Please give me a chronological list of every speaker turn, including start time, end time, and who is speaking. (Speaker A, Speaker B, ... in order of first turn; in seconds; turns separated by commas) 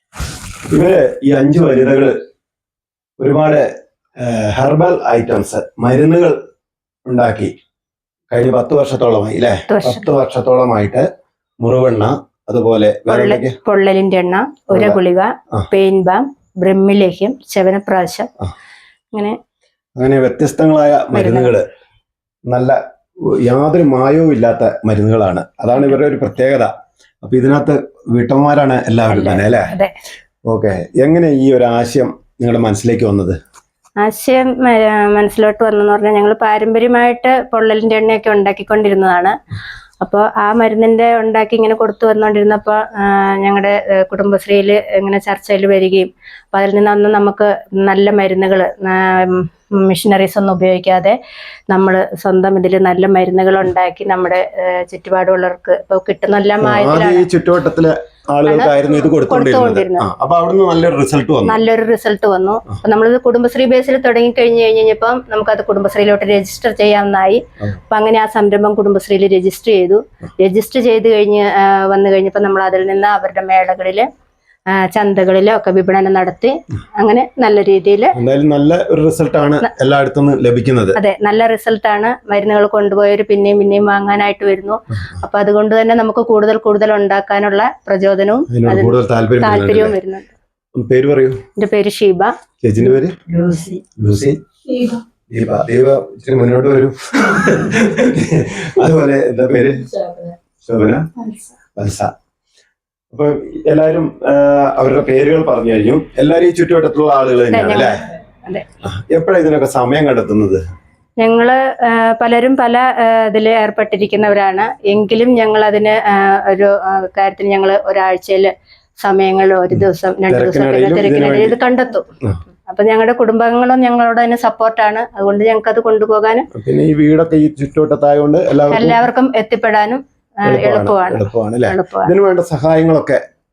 Speaker A: 0.7-2.1, Speaker A: 3.2-6.3, Speaker A: 7.1-7.5, Speaker A: 8.3-11.0, Speaker B: 9.7-10.1, Speaker A: 11.6-13.6, Speaker B: 13.1-18.3, Speaker A: 14.7-15.0, Speaker B: 19.1-19.4, Speaker A: 20.0-21.6, Speaker B: 21.1-21.5, Speaker A: 22.5-26.7, Speaker A: 27.2-29.7, Speaker B: 29.1-29.9, Speaker A: 30.5-33.4, Speaker B: 34.0-39.3, Speaker B: 40.0-51.2, Speaker B: 51.7-57.2, Speaker A: 56.6-61.6, Speaker B: 58.4-60.0, Speaker B: 61.4-74.1, Speaker B: 74.7-78.1, Speaker A: 78.1-81.0, Speaker B: 81.0-90.3, Speaker A: 88.5-90.0, Speaker A: 90.7-91.4, Speaker B: 91.6-92.3, Speaker A: 92.6-93.2, Speaker B: 93.3-93.8, Speaker A: 94.0-94.4, Speaker A: 95.3-100.0, Speaker A: 100.6-101.1, Speaker A: 101.8-102.1, Speaker A: 103.1-108.0, Speaker B: 107.5-108.6, Speaker A: 108.8-110.6, Speaker B: 111.2-122.0, Speaker A: 120.3-121.6, Speaker B: 122.7-126.5, Speaker A: 126.5-129.0, Speaker B: 128.7-132.1, Speaker A: 130.4-133.2